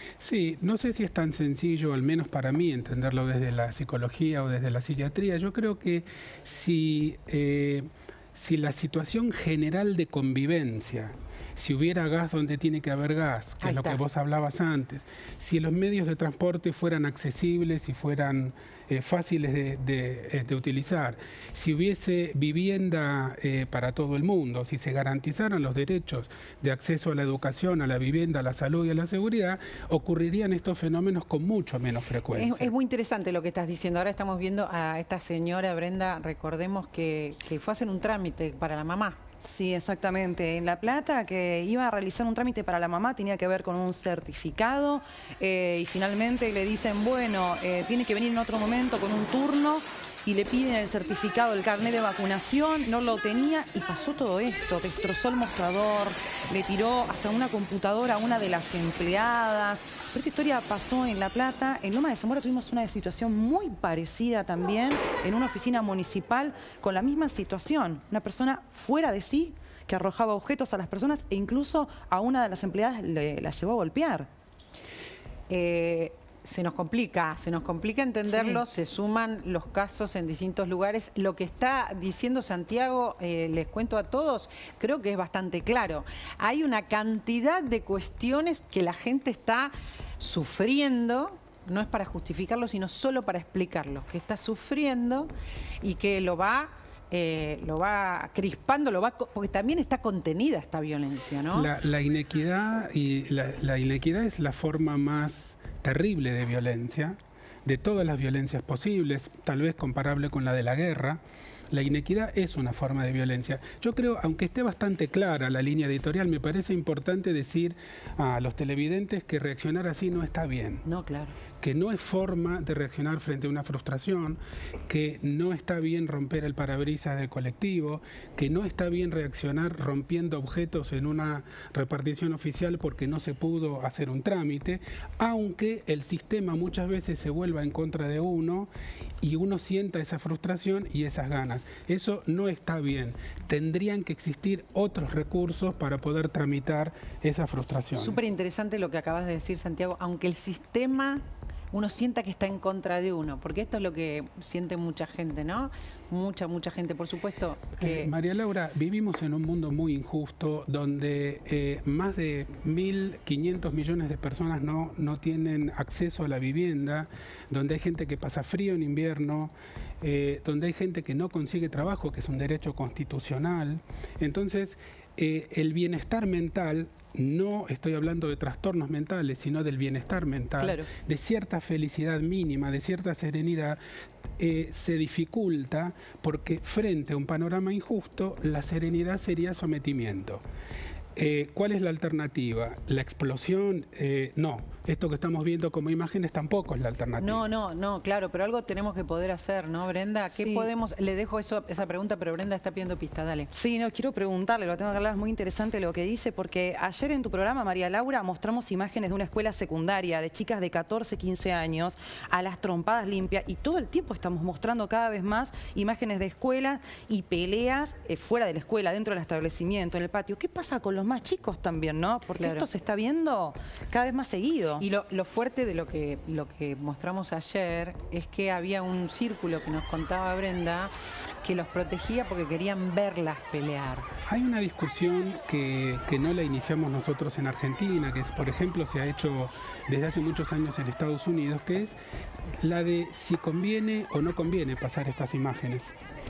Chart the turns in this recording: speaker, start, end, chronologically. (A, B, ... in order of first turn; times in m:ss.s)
0:00.2-0:32.7 A
0:13.6-0:14.0 B
0:32.3-0:39.2 B
0:39.4-1:14.3 C
1:15.5-1:35.3 B
1:18.3-1:18.6 C
1:35.8-1:41.7 B
1:41.5-2:00.8 A
2:00.8-2:01.4 B
2:01.6-2:18.7 A
2:19.2-2:28.2 A
2:28.0-2:38.1 B
2:37.8-3:03.8 A
3:04.4-3:10.4 A
3:11.2-3:17.4 A
3:17.2-3:23.5 B
3:20.3-3:20.7 C
3:23.5-3:44.8 C
3:42.4-3:42.6 B
3:44.8-3:50.9 B
3:51.4-3:54.1 B
3:54.3-4:02.0 A
4:02.6-4:05.9 A